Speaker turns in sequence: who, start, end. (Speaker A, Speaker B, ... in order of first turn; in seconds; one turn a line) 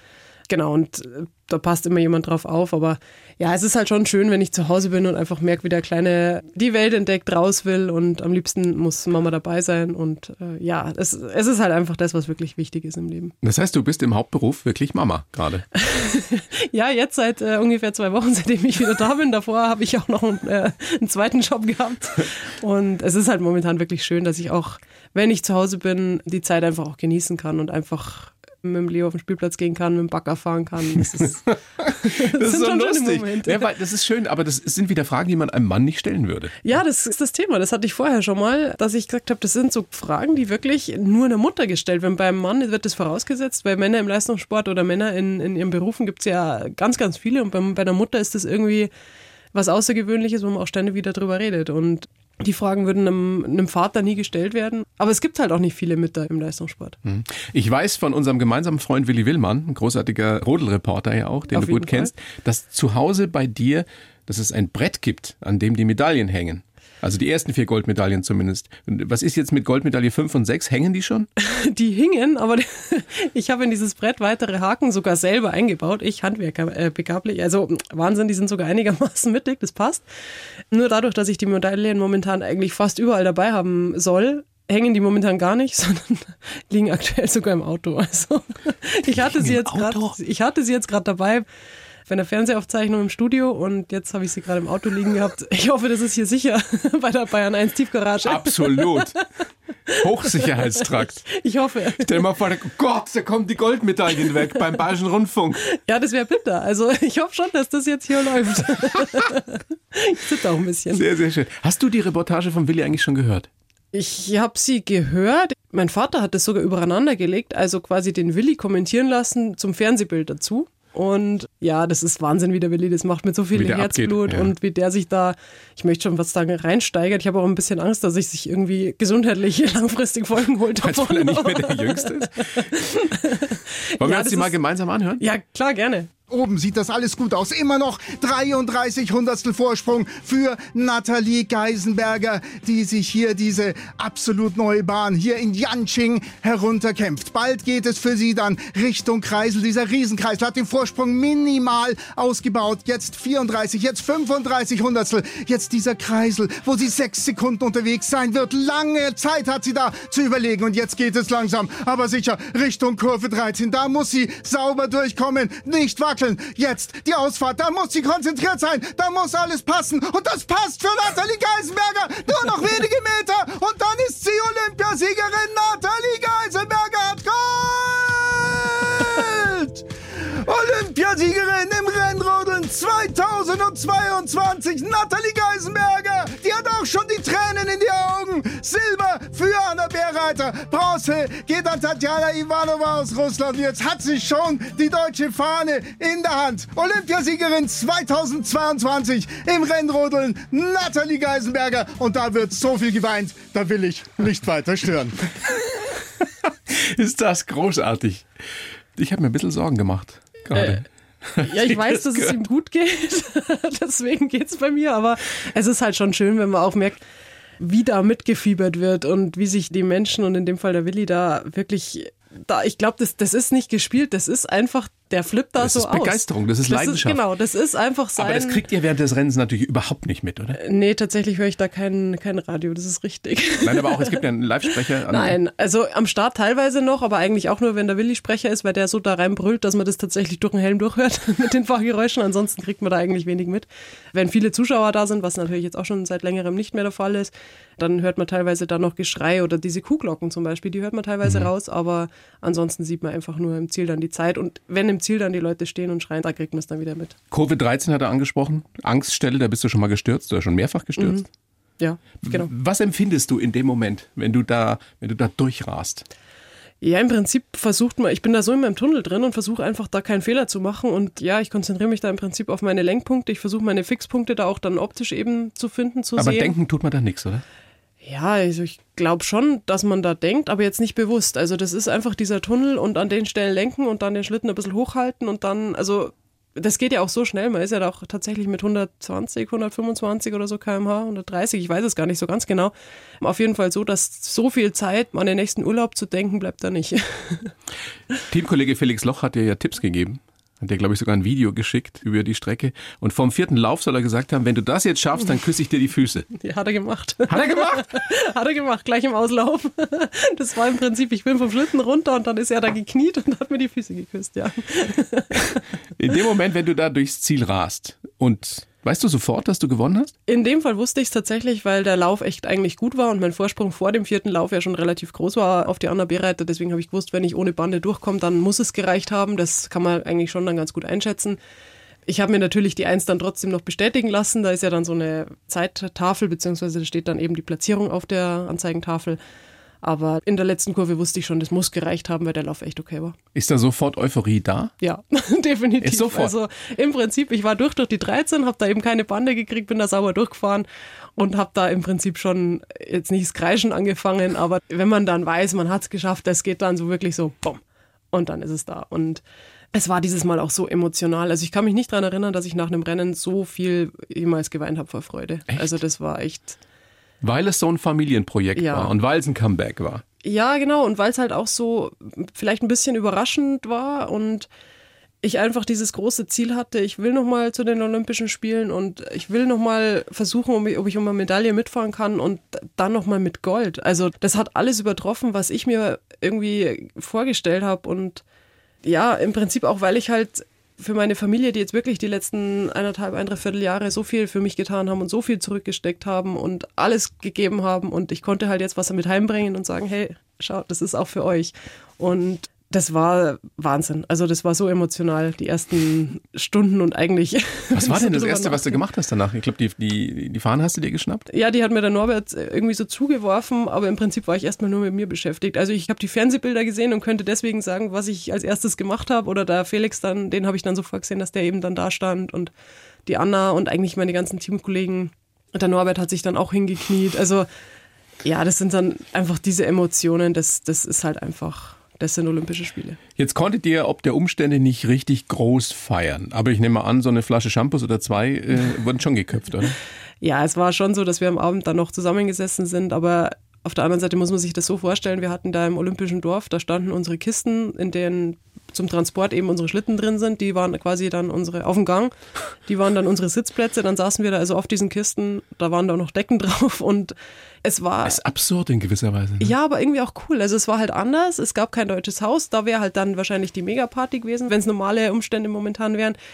Speaker A: 0.5-13.3
Speaker B: 13.4-15.7
Speaker A: 15.7-33.7
Speaker B: 31.8-36.6
Speaker A: 36.6-48.9
Speaker A: 49.5-57.0
Speaker B: 57.0-71.3
Speaker A: 61.5-62.1
Speaker A: 71.4-80.0
Speaker A: 80.7-91.5
Speaker B: 89.1-90.2
Speaker A: 92.1-99.1
Speaker B: 98.2-99.2
Speaker A: 99.9-102.2
Speaker B: 99.9-101.2
Speaker B: 101.9-105.6
Speaker A: 105.7-111.0
Speaker B: 110.9-113.5
Speaker A: 113.9-134.6
Speaker B: 123.5-124.5
Speaker B: 130.8-132.7
Speaker B: 134.0-135.2
Speaker A: 135.2-136.1
Speaker C: 136.3-205.3
Speaker B: 206.4-208.3
Speaker B: 208.9-212.4
Speaker A: 210.5-210.8
Speaker A: 211.4-217.0
Speaker A: 217.6-228.6
Speaker B: 225.6-227.2
Speaker B: 228.2-230.6
Speaker A: 230.6-234.2
Speaker B: 233.6-235.4
Speaker A: 235.1-257.1
Speaker B: 257.3-261.2
Speaker A: 261.0-261.2
Speaker A: 261.8-262.5
Speaker B: 262.2-266.1
Speaker A: 266.8-276.5
Speaker B: 276.1-277.4
Speaker A: 278.0-297.5
Speaker B: 298.3-306.3
Speaker A: 306.3-315.6
Speaker B: 307.3-307.9
Speaker B: 316.0-320.1
Speaker A: 320.3-331.4
Speaker A: 332.1-339.2
Speaker A: 339.8-343.1
Speaker B: 343.3-344.7
Speaker A: 344.8-350.6
Speaker B: 345.8-346.3
Speaker A: 351.2-357.6
Speaker A: 358.1-359.2
Speaker A: 359.7-366.6
Speaker B: 367.2-370.0
Speaker A: 368.5-368.9
Speaker A: 370.2-374.5
Speaker A: 375.2-388.2
Speaker A: 388.8-408.8
Speaker B: 407.7-411.2
Speaker A: 411.3-422.5
Speaker A: 423.1-427.5
Speaker A: 428.2-433.0
Speaker B: 433.2-439.8
Speaker A: 440.2-452.1
Speaker A: 452.6-458.2
Speaker B: 458.0-459.5
Speaker A: 459.4-466.2